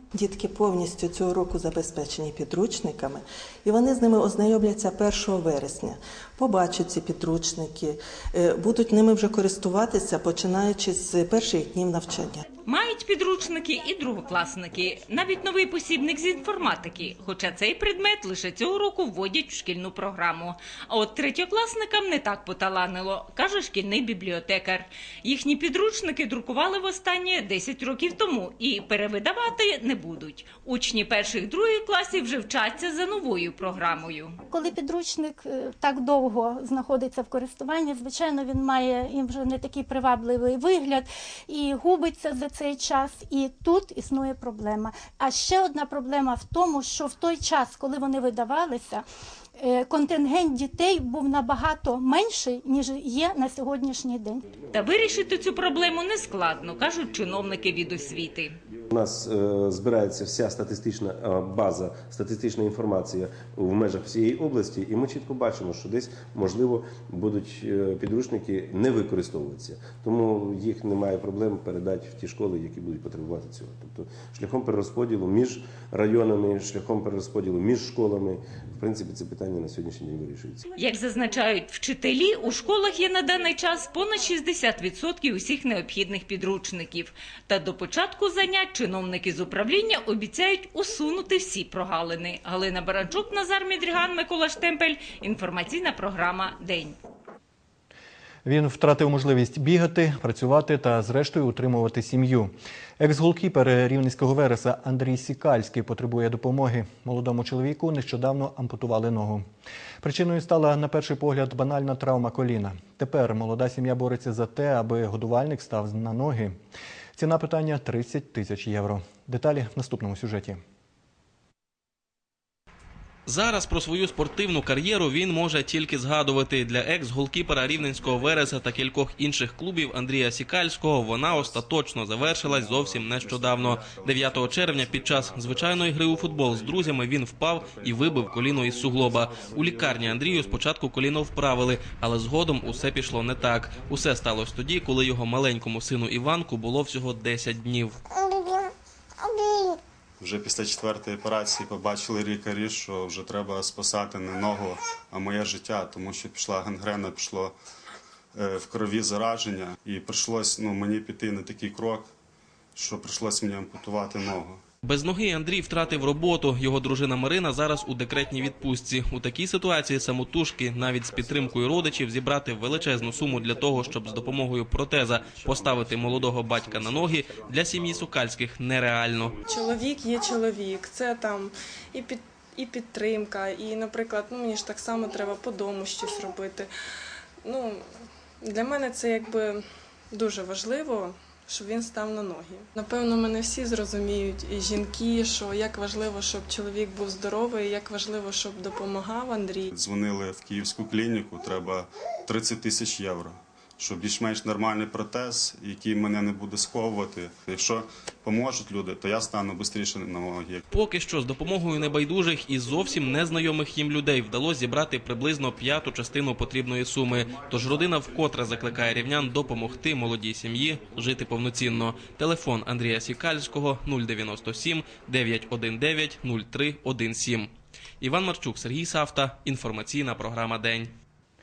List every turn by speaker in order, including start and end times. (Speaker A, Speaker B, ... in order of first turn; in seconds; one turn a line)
Speaker A: 0.1-12.4
Speaker B: 12.7-34.4
Speaker C: 34.5-49.0
Speaker C: 49.6-54.4
Speaker B: 54.7-58.5
Speaker D: 58.9-80.7
Speaker B: 80.8-97.0
Speaker E: 98.5-109.5
Speaker E: 110.0-116.6
Speaker E: 117.2-120.6
Speaker F: 123.3-148.0
Speaker G: 150.2-157.5
Speaker G: 158.3-162.1
Speaker G: 162.8-164.6
Speaker F: 164.8-179.3
Speaker H: 179.5-186.7
Speaker H: 187.4-187.8
Speaker H: 188.4-199.7
Speaker G: 199.8-210.6
Speaker F: 210.7-230.9